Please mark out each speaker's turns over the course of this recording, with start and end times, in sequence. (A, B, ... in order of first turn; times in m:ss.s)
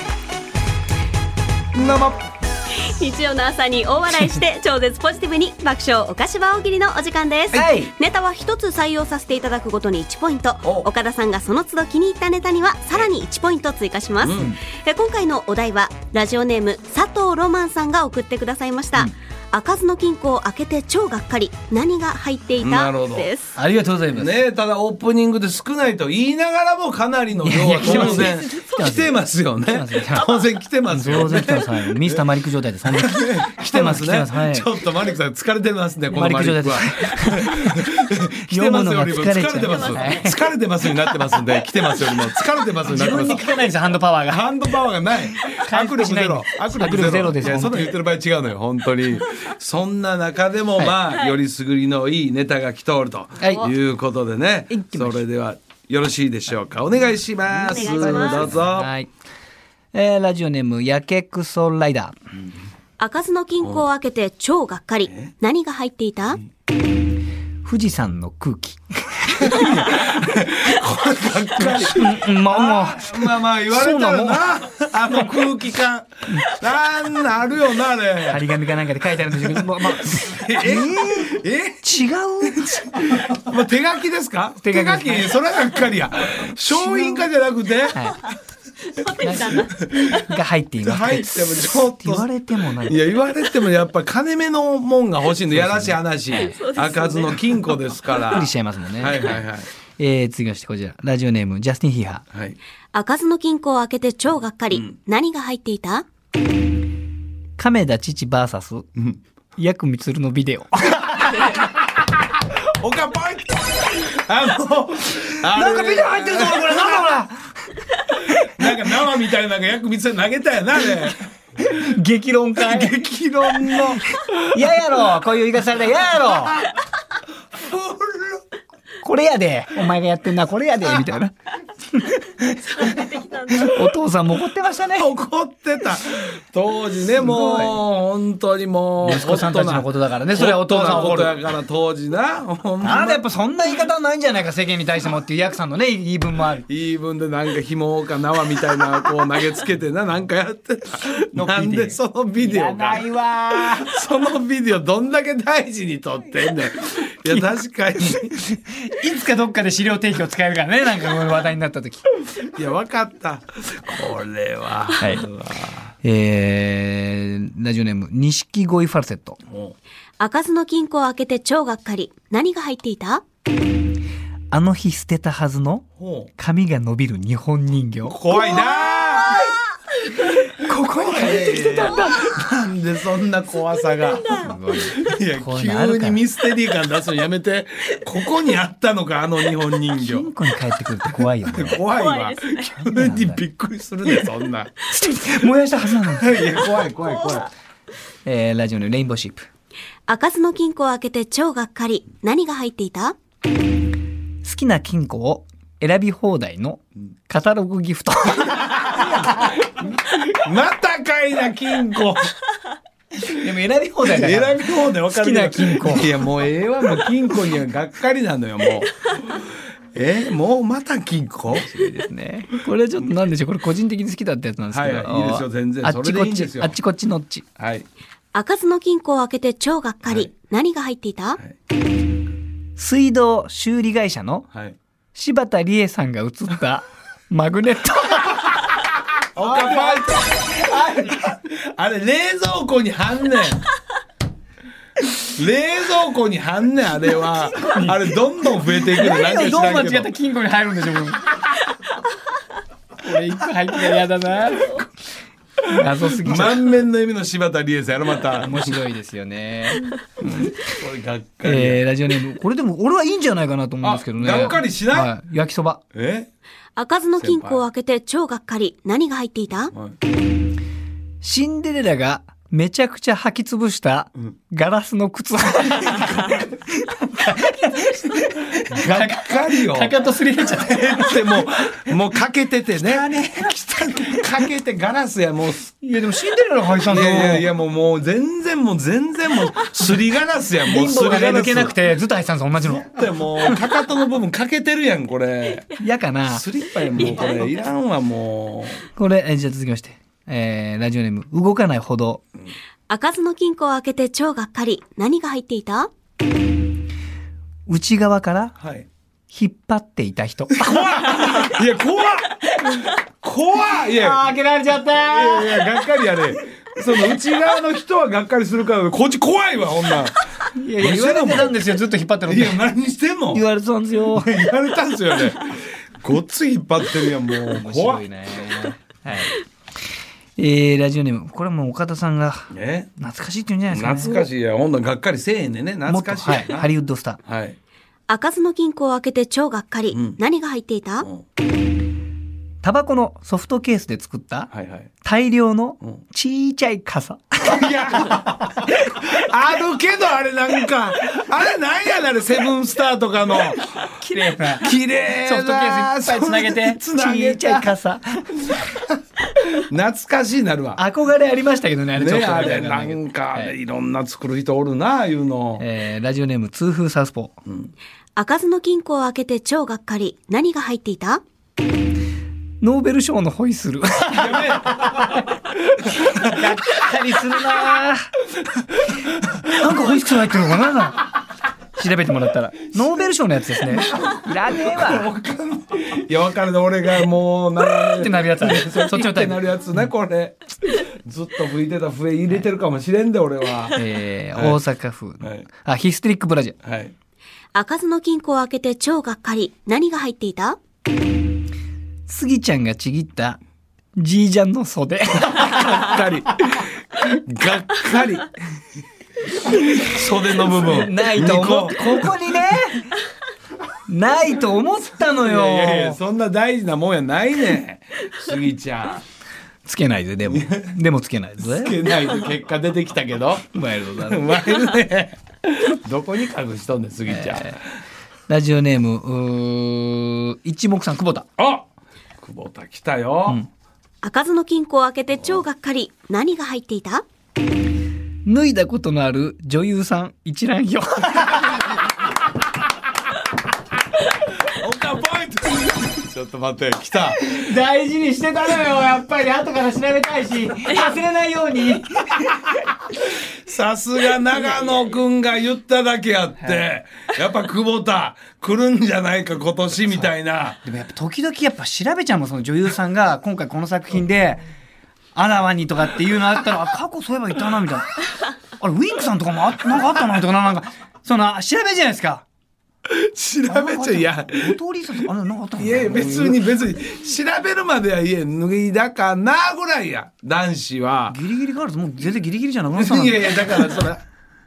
0:01.7-0:02.2 A
0:02.7-0:23.5 B
0:07.5-0:07.9 C
0:14.2-0:14.6 A
0:22.6-0:23.3 A
0:23.6-0:24.4 C
0:24.1-0:32.2 A
0:27.4-0:34.7 C
0:27.8-0:28.8 B
0:32.9-0:43.5 A
0:36.1-0:37.8 C
0:38.4-0:40.4 C
0:39.6-0:40.3 B
0:42.8-0:44.4 C
0:44.3-0:58.9 A
0:45.4-0:48.0 C
0:51.1-0:51.4 B
0:53.4-0:53.7 C
0:54.7-0:55.2 C
0:57.6-0:58.5 B
0:57.8-0:59.1 C
0:59.9-1:02.2 C
1:03.0-1:06.4 B
1:07.6-1:10.0 C
1:09.4-1:18.6 A
1:11.6-1:14.5 C
1:18.3-1:22.9 C
1:19.3-1:28.0 A
1:24.6-1:25.4 C
1:26.6-1:27.3 C
1:27.9-1:28.2 C
1:29.0-1:29.7 B
1:29.2-1:33.0 C
1:29.7-1:30.2 A
1:30.8-1:39.7 A
1:35.5-1:36.6 C
1:36.4-1:37.7 B
1:38.2-1:42.3 C
1:42.3-1:42.6 A
1:42.9-1:46.1 B
1:47.6-1:48.9 C
1:49.6-1:51.5 C
1:52.5-1:57.1 A
1:55.5-1:57.5 C
1:58.4-2:01.2 A
2:01.6-2:06.6 C
2:02.6-2:04.7 A
2:07.6-2:08.4 A
2:09.0-2:11.4 C
2:11.9-2:15.1 C
2:12.7-2:13.9 B
2:15.0-2:23.2 A
2:17.2-2:17.8 C
2:19.0-2:21.4 C
2:22.8-2:26.6 C
2:26.7-2:38.3 A
2:31.3-2:33.9 C
2:38.3-2:42.0 C
2:42.4-2:45.7 A
2:45.0-2:45.4 C
2:46.0-2:49.4 C
2:49.5-2:49.8 A
2:50.2-2:53.2 B
2:54.5-2:58.5 C
2:56.0-2:56.3 A
2:58.1-2:59.4 A
2:58.3-2:59.6 B
2:59.2-2:59.5 C
3:00.5-3:02.4 C
3:00.9-3:04.4 A
3:01.7-3:02.1 B
3:04.2-3:05.0 B
3:04.3-3:06.2 C
3:04.9-3:10.3 A
3:10.0-3:11.8 C
3:11.5-3:14.7 A
3:11.9-3:12.7 B
3:12.8-3:13.4 C
3:14.9-3:16.4 C
3:16.2-3:17.5 A
3:18.2-3:19.4 C
3:20.1-3:23.2 B
3:24.4-3:29.3 C
3:30.1-3:32.4 A
3:33.2-3:36.2 C
3:34.1-3:39.4 A
3:39.9-3:41.7 A
3:41.5-3:47.5 C
3:44.7-3:46.8 A
3:47.6-3:47.9 A
3:48.3-3:51.4 B
3:52.8-3:54.5 C
3:55.1-3:58.6 C
3:59.4-4:00.6 A
3:59.4-4:01.3 C
4:01.1-4:03.6 A
4:05.3-4:10.1 A
4:07.4-4:08.0 C
4:08.8-4:11.4 C
4:13.0-4:14.9 C
4:15.6-4:16.8 C
4:16.2-4:18.7 A
4:18.4-4:20.5 C
4:20.2-4:21.8 A
4:21.4-4:25.8 C
4:23.8-4:25.1 A
4:25.9-4:26.3 A
4:26.8-4:29.7 B
4:27.2-4:27.6 A
4:31.2-4:41.4 C
4:38.7-4:40.0 A
4:40.5-4:45.8 A
4:42.8-4:44.2 C
4:45.8-4:47.5 C
4:46.9-4:51.8 A
4:50.6-4:53.6 C
4:52.8-4:55.7 A
4:55.8-4:56.4 C
4:56.2-4:58.8 A
4:57.0-4:57.3 C
4:57.0-4:57.6 B
4:58.9-5:02.2 C
5:02.9-5:05.9 B
5:07.7-5:08.6 C
5:08.6-5:08.9 A
5:09.3-5:11.2 C
5:10.5-5:14.3 A
5:14.0-5:15.7 C
5:15.0-5:20.2 A
5:20.6-5:22.6 C
5:20.8-5:21.6 A
5:22.3-5:23.4 A
5:23.3-5:24.3 C
5:24.1-5:28.1 A
5:27.5-5:29.4 C
5:30.4-5:34.3 C
5:32.5-5:32.9 A
5:33.7-5:36.7 A
5:35.9-5:37.2 C
5:37.2-5:37.6 A
5:38.1-5:41.1 B
5:39.9-5:40.2 A
5:42.6-5:44.5 C
5:44.5-5:44.9 A
5:45.0-5:47.6 C
5:47.4-5:48.3 A
5:48.8-5:53.9 A
5:53.8-5:58.6 C
5:54.6-5:57.8 A
5:59.6-6:00.8 A
6:00.8-6:03.6 C
6:02.0-6:05.6 A
6:05.6-6:07.4 C
6:08.2-6:11.2 B
6:12.6-6:14.9 C
6:14.1-6:15.3 A
6:16.0-6:18.0 C
6:16.0-6:16.2 A
6:19.5-6:21.1 C
6:19.6-6:19.9 A
6:21.8-6:25.1 C
6:24.0-6:33.8 A
6:28.0-6:29.8 C
6:33.8-6:36.6 C
6:34.4-6:34.6 A
6:35.2-6:35.5 A
6:36.6-6:37.0 A
6:37.6-6:40.6 B
6:42.1-6:43.4 C
6:44.0-6:45.9 C
6:45.3-6:48.3 A
6:49.5-6:52.2 A
6:50.5-6:52.9 C
6:53.9-6:56.0 C
6:55.1-6:59.0 A
6:59.6-7:01.8 C
7:00.2-7:00.8 A
7:01.4-7:03.5 A
7:03.5-7:04.4 C
7:04.0-7:07.6 A
7:07.1-7:07.5 C
7:08.3-7:11.3 C
7:11.4-7:11.6 A
7:12.2-7:13.4 A
7:14.0-7:17.0 B
7:18.2-7:21.6 C
7:24.4-7:27.2 A
7:27.2-7:32.4 C
7:33.2-7:40.6 A
7:36.4-7:36.7 C
7:40.6-7:44.4 C
7:45.1-7:47.9 C
7:48.6-7:52.3 C
7:52.9-7:54.6 A
7:53.5-7:56.4 C
7:55.6-8:01.2 A
8:01.1-8:03.8 C
8:02.7-8:04.0 A